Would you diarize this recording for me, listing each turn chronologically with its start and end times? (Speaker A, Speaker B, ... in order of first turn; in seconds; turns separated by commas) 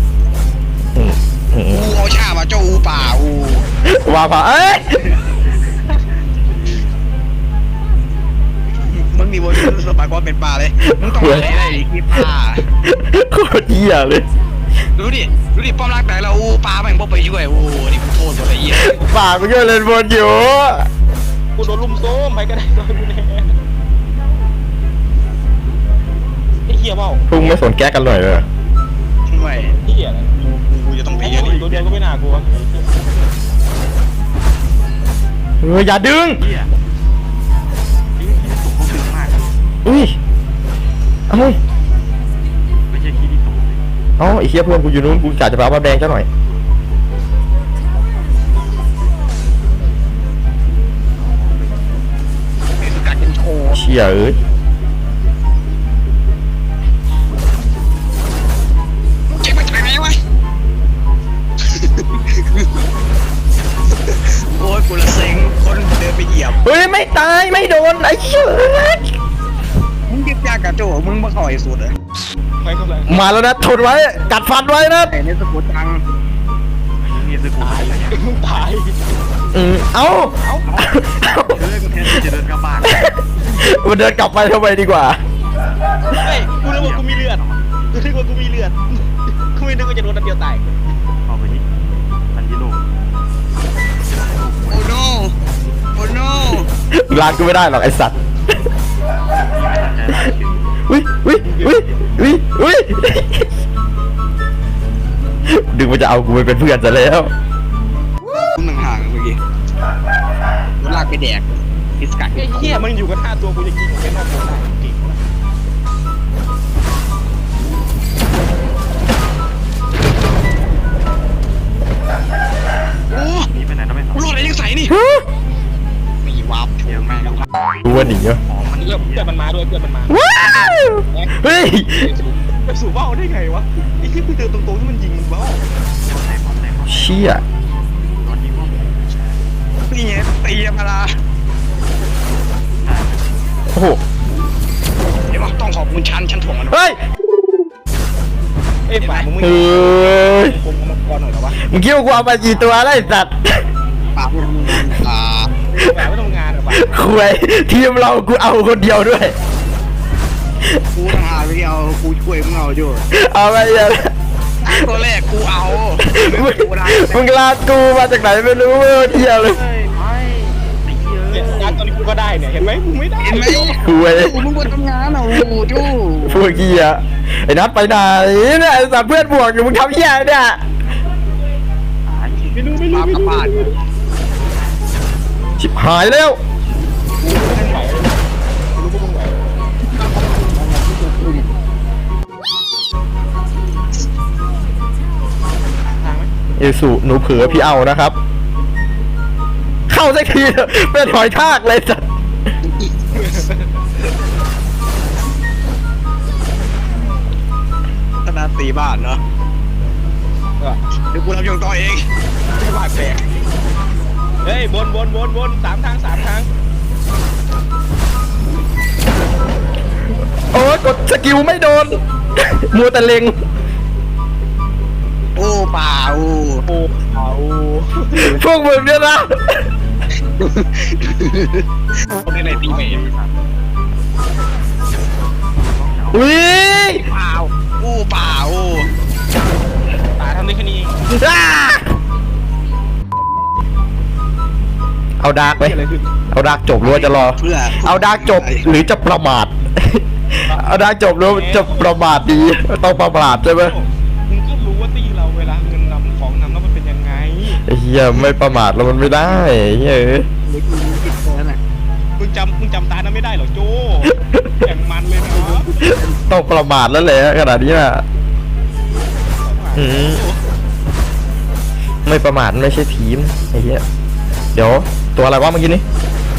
Speaker A: 0.9-1.9, Speaker B: 1.7-3.6, Speaker A: 3.9-5.1, Speaker C: 6.4-7.0, Speaker B: 8.9-12.6, Speaker A: 10.9-11.5, Speaker A: 12.8-14.3, Speaker B: 15.0-19.0, Speaker A: 18.7-20.9, Speaker D: 21.6-23.6, Speaker D: 26.7-27.2, Speaker A: 27.3-28.5, Speaker B: 29.3-29.8, Speaker D: 29.7-30.4, Speaker B: 30.5-31.9, Speaker D: 31.1-32.9, Speaker A: 35.6-36.4, Speaker C: 36.4-36.7, Speaker C: 38.2-39.5, Speaker A: 39.9-40.2, Speaker A: 41.3-41.6, Speaker C: 42.9-43.9, Speaker A: 44.2-46.3, Speaker C: 51.3-51.8, Speaker B: 52.8-53.8, Speaker A: 53.7-54.4, Speaker B: 59.3-60.2, Speaker B: 61.7-62.8, Speaker B: 64.3-66.6, Speaker A: 66.5-69.1, Speaker B: 70.1-71.9, Speaker D: 72.6-73.2, Speaker A: 73.1-75.1, Speaker B: 75.1-76.0, Speaker C: 77.0-78.7, Speaker D: 77.6-79.1, Speaker A: 79.5-81.6, Speaker D: 80.4-80.7, Speaker C: 81.5-83.1, Speaker A: 82.9-85.2, Speaker D: 86.1-90.8, Speaker C: 86.4-87.8, Speaker C: 91.3-91.7, Speaker C: 92.3-92.9, Speaker C: 94.0-95.0, Speaker B: 94.7-95.3, Speaker B: 96.0-96.7, Speaker A: 96.9-98.2, Speaker C: 99.3-100.7, Speaker A: 100.9-103.5, Speaker D: 101.5-101.8, Speaker A: 105.5-107.3, Speaker B: 108.6-109.4, Speaker B: 110.8-112.8, Speaker D: 112.3-115.2, Speaker B: 123.1-123.5, Speaker C: 123.5-124.7, Speaker B: 124.1-125.0, Speaker A: 124.9-125.2, Speaker B: 126.2-127.5, Speaker C: 126.9-129.4, Speaker A: 127.8-128.4, Speaker D: 128.8-130.2, Speaker A: 130.1-132.1, Speaker D: 131.1-131.3, Speaker D: 132.0-135.6, Speaker C: 136.0-137.5, Speaker A: 136.9-137.4, Speaker C: 138.2-139.4, Speaker B: 139.9-141.1, Speaker C: 142.8-143.3, Speaker A: 143.7-144.0, Speaker B: 145.3-146.8, Speaker A: 146.7-147.0, Speaker D: 148.9-151.6, Speaker A: 149.4-150.6, Speaker A: 151.6-153.7, Speaker B: 154.2-155.5, Speaker D: 155.7-156.9, Speaker A: 156.7-159.4, Speaker B: 160.9-163.1, Speaker A: 163.1-164.1, Speaker B: 164.6-167.3, Speaker A: 166.0-169.6, Speaker C: 169.3-172.0, Speaker D: 171.3-173.8, Speaker B: 173.2-176.5, Speaker A: 173.8-174.4, Speaker A: 176.2-180.6, Speaker C: 182.1-182.7, Speaker D: 182.5-183.8, Speaker B: 182.9-183.5, Speaker A: 185.6-186.4, Speaker D: 187.2-189.6, Speaker B: 190.1-191.5, Speaker D: 196.0-196.3, Speaker A: 196.6-198.2, Speaker D: 197.3-197.8, Speaker A: 199.9-202.1, Speaker D: 203.1-203.8, Speaker B: 208.2-209.2, Speaker B: 211.1-212.1, Speaker D: 212.6-213.3, Speaker D: 214.4-216.5, Speaker A: 220.5-223.4, Speaker B: 225.4-226.6, Speaker D: 226.7-228.4, Speaker A: 228.1-229.7, Speaker B: 230.4-231.6, Speaker B: 232.3-233.1, Speaker C: 232.3-233.4, Speaker C: 235.4-236.8, Speaker A: 236.1-237.0, Speaker B: 236.9-238.9, Speaker D: 240.2-241.0, Speaker A: 241.1-241.9, Speaker A: 245.2-245.8, Speaker D: 245.6-246.1, Speaker A: 246.3-253.8, Speaker B: 246.8-248.7, Speaker D: 250.5-252.2, Speaker D: 253.5-257.6, Speaker A: 257.6-260.3, Speaker B: 260.4-261.6, Speaker D: 262.2-265.8, Speaker B: 265.3-266.2, Speaker A: 265.8-268.0, Speaker D: 269.4-270.4, Speaker A: 269.8-270.2, Speaker A: 272.1-273.8, Speaker A: 274.5-275.8